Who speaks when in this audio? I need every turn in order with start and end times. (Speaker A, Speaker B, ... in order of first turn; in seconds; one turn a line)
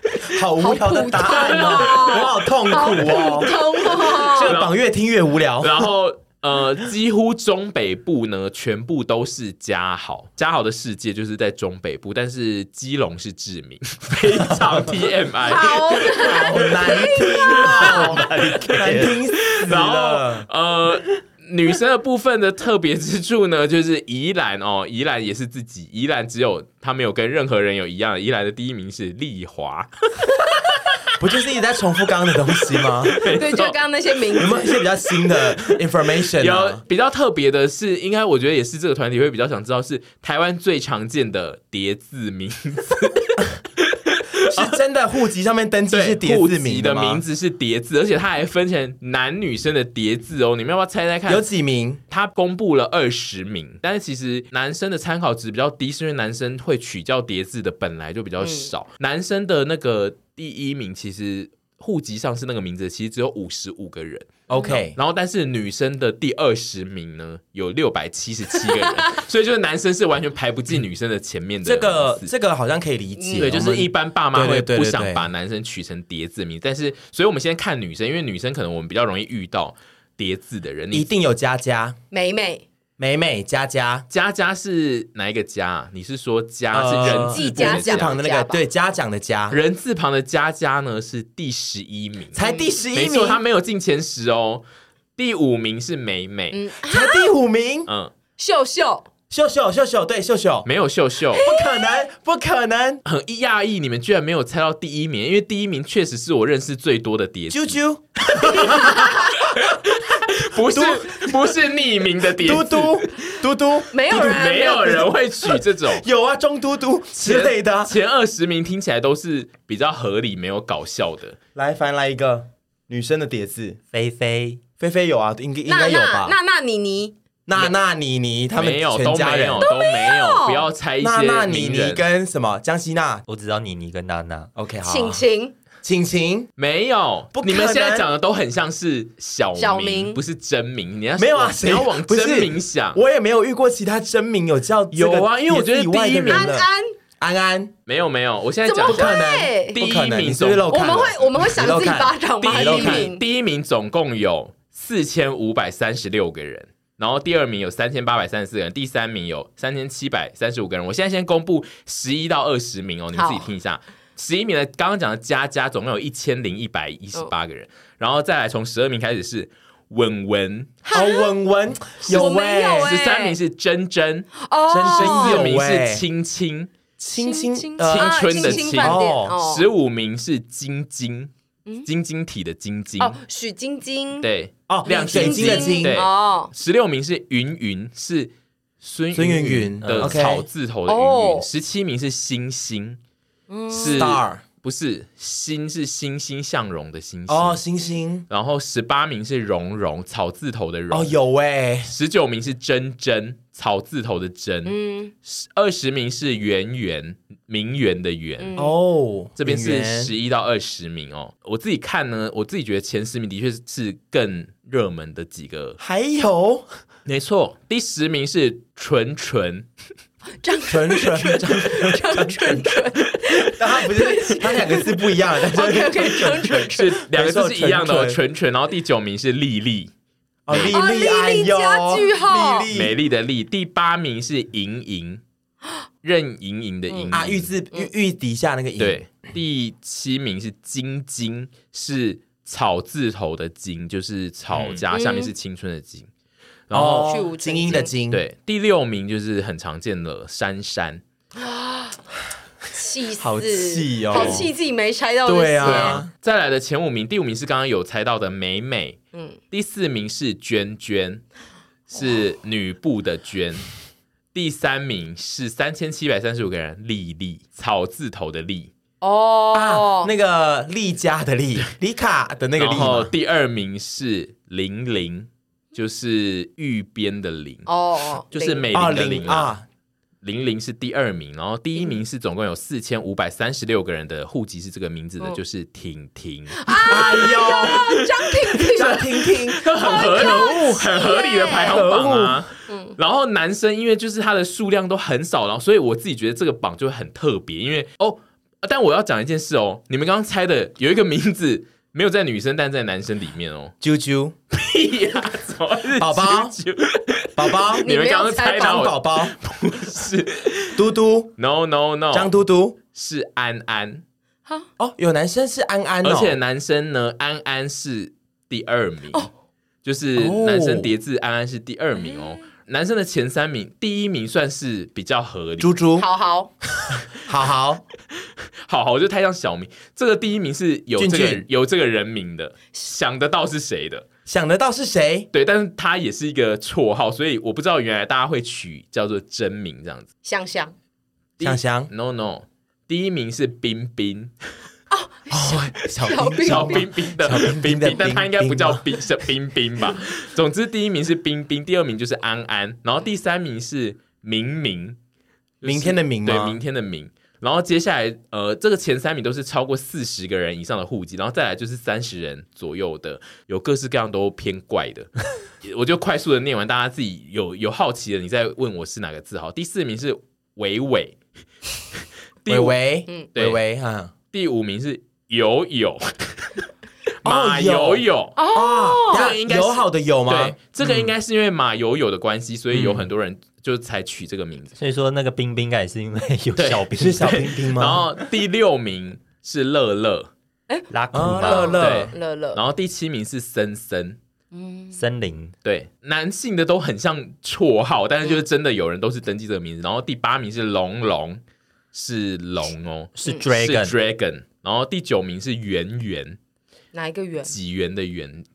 Speaker A: 0.2-5.9
Speaker B: 0.6-4.5
Speaker C: 1.1-4.8
Speaker C: 5.6-17.1
Speaker B: 15.4-18.1
Speaker A: 16.2-20.5
Speaker D: 17.8-19.2
Speaker C: 18.6-31.0
Speaker A: 31.2-33.2
Speaker C: 33.0-33.8
Speaker B: 33.2-34.8
Speaker A: 34.4-36.8
Speaker C: 34.4-35.8
Speaker C: 36.4-44.8
Speaker A: 44.5-47.2
Speaker C: 45.9-51.5
Speaker A: 51.3-52.0
Speaker C: 52.1-72.3
Speaker B: 58.4-58.7
Speaker A: 64.5-65.0
Speaker B: 64.5-64.8
Speaker B: 68.6-69.0
Speaker A: 71.7-75.2
Speaker B: 73.2-73.6
Speaker C: 73.4-81.1
Speaker A: 80.9-82.0
Speaker B: 82.1-82.7
Speaker A: 83.0-84.1
Speaker C: 84.1-88.2
Speaker A: 86.7-89.6
Speaker B: 87.0-88.6
Speaker C: 89.5-92.4
Speaker A: 92.3-93.4
Speaker B: 92.4-92.7
Speaker C: 92.9-94.7
Speaker C: 95.2-96.6
Speaker B: 96.5-97.3
Speaker A: 96.9-97.9
Speaker C: 97.9-98.1
Speaker B: 98.4-99.1
Speaker A: 99.3-100.7
Speaker C: 100.7-101.5
Speaker B: 101.3-102.0
Speaker A: 101.4-103.0
Speaker C: 103.1-107.8
Speaker A: 107.5-109.8
Speaker C: 108.3-113.3
Speaker B: 108.5-109.5
Speaker A: 110.7-111.5
Speaker A: 112.3-115.0
Speaker B: 113.9-115.2
Speaker C: 114.1-116.0
Speaker A: 115.8-118.0
Speaker C: 117.2-121.4
Speaker A: 121.5-123.8
Speaker D: 123.9-124.6
Speaker A: 124.8-126.3
Speaker B: 125.7-127.2
Speaker A: 127.5-129.7
Speaker C: 128.5-132.1
Speaker B: 129.6-130.6
Speaker A: 131.0-133.2
Speaker D: 133.3-134.5
Speaker A: 134.6-135.2
Speaker B: 134.8-135.6
Speaker A: 135.8-136.5
Speaker C: 136.6-143.0
Speaker A: 137.3-138.1
Speaker B: 139.6-140.2
Speaker A: 141.2-146.7
Speaker C: 144.9-146.6
Speaker B: 146.3-146.9
Speaker A: 147.2-147.7
Speaker C: 147.9-151.1
Speaker B: 148.7-149.8
Speaker A: 148.8-153.1
Speaker B: 150.7-153.2
Speaker C: 152.4-171.1
Speaker B: 163.2-163.5
Speaker B: 170.9-171.3
Speaker A: 170.9-173.0
Speaker B: 172.1-173.4
Speaker C: 172.8-174.3
Speaker B: 174.4-175.5
Speaker A: 174.7-176.0
Speaker C: 174.8-176.7
Speaker A: 177.0-179.4
Speaker B: 177.1-179.7
Speaker C: 177.8-181.3
Speaker C: 181.8-183.2
Speaker B: 183.0-184.3
Speaker C: 184.2-193.0
Speaker A: 184.7-186.0
Speaker B: 184.9-186.5
Speaker A: 189.1-190.5
Speaker D: 189.9-190.2
Speaker B: 190.9-191.5
Speaker B: 193.5-194.2
Speaker C: 193.7-197.6
Speaker A: 193.9-194.4
Speaker A: 197.3-198.3
Speaker C: 198.3-201.2
Speaker A: 200.9-201.9
Speaker C: 201.8-208.6
Speaker B: 204.7-205.1
Speaker B: 208.4-208.8
Speaker A: 208.6-210.1
Speaker C: 209.4-215.8
Speaker A: 215.8-216.7
Speaker C: 217.1-219.7
Speaker B: 220.4-226.9
Speaker A: 220.7-222.6
Speaker A: 223.6-228.2
Speaker C: 226.7-229.9
Speaker A: 230.5-233.0
Speaker C: 230.5-230.8
Speaker B: 230.6-232.7
Speaker C: 232.7-235.2
Speaker C: 236.0-237.5
Speaker B: 236.9-237.2
Speaker A: 237.1-239.0
Speaker C: 238.8-246.1
Speaker A: 244.5-244.8
Speaker B: 244.9-245.3
Speaker C: 246.7-247.2
Speaker A: 246.7-248.2
Speaker B: 247.0-247.9
Speaker C: 247.7-251.0
Speaker B: 251.4-252.0
Speaker B: 252.7-256.0
Speaker A: 253.2-254.5
Speaker C: 254.1-254.5
Speaker A: 255.3-256.1
Speaker C: 255.6-259.0
Speaker C: 259.5-261.2
Speaker C: 261.9-263.7
Speaker C: 264.3-268.7
Speaker B: 269.0-270.1
Speaker A: 269.5-273.1
Speaker C: 272.6-277.7
Speaker B: 277.7-278.7
Speaker C: 278.3-279.5
Speaker A: 278.7-279.6
Speaker C: 280.2-303.8
Speaker B: 286.5-291.8
Speaker A: 286.9-288.0
Speaker A: 288.7-290.8
Speaker A: 291.6-292.4
Speaker B: 292.7-292.9
Speaker A: 303.8-304.4
Speaker C: 304.5-310.8
Speaker A: 306.0-306.6
Speaker A: 307.4-307.9
Speaker B: 307.7-308.9
Speaker A: 308.6-309.4
Speaker A: 310.8-311.3
Speaker C: 311.4-312.3
Speaker A: 312.1-312.8
Speaker C: 312.9-314.0
Speaker A: 314.8-316.4
Speaker C: 316.0-319.3
Speaker C: 319.8-325.8
Speaker A: 320.2-320.9
Speaker A: 325.6-326.1
Speaker B: 326.0-326.5
Speaker A: 326.9-327.8
Speaker C: 328.7-334.1
Speaker A: 331.0-331.4
Speaker A: 334.3-335.3
Speaker C: 335.3-340.1
Speaker B: 340.2-340.7
Speaker C: 341.4-344.3
Speaker A: 341.4-341.9
Speaker B: 344.9-346.9
Speaker A: 345.3-348.8
Speaker C: 346.2-355.0
Speaker C: 355.6-365.1
Speaker A: 355.6-356.6
Speaker C: 365.6-371.2
Speaker C: 372.4-372.8
Speaker A: 372.5-374.1
Speaker C: 373.3-373.6
Speaker C: 374.3-376.7
Speaker C: 377.2-378.4
Speaker A: 377.2-381.1
Speaker B: 378.4-379.3
Speaker C: 379.1-384.8
Speaker A: 382.7-383.1
Speaker D: 384.8-387.5
Speaker C: 386.6-390.3
Speaker A: 386.9-388.1
Speaker D: 390.9-391.8
Speaker A: 391.1-392.1
Speaker B: 391.4-392.6
Speaker C: 391.7-394.2
Speaker B: 394.5-395.0
Speaker D: 394.9-395.5
Speaker C: 395.6-401.4
Speaker C: 401.9-406.4
Speaker D: 403.2-403.9
Speaker B: 406.9-407.5
Speaker C: 407.4-408.4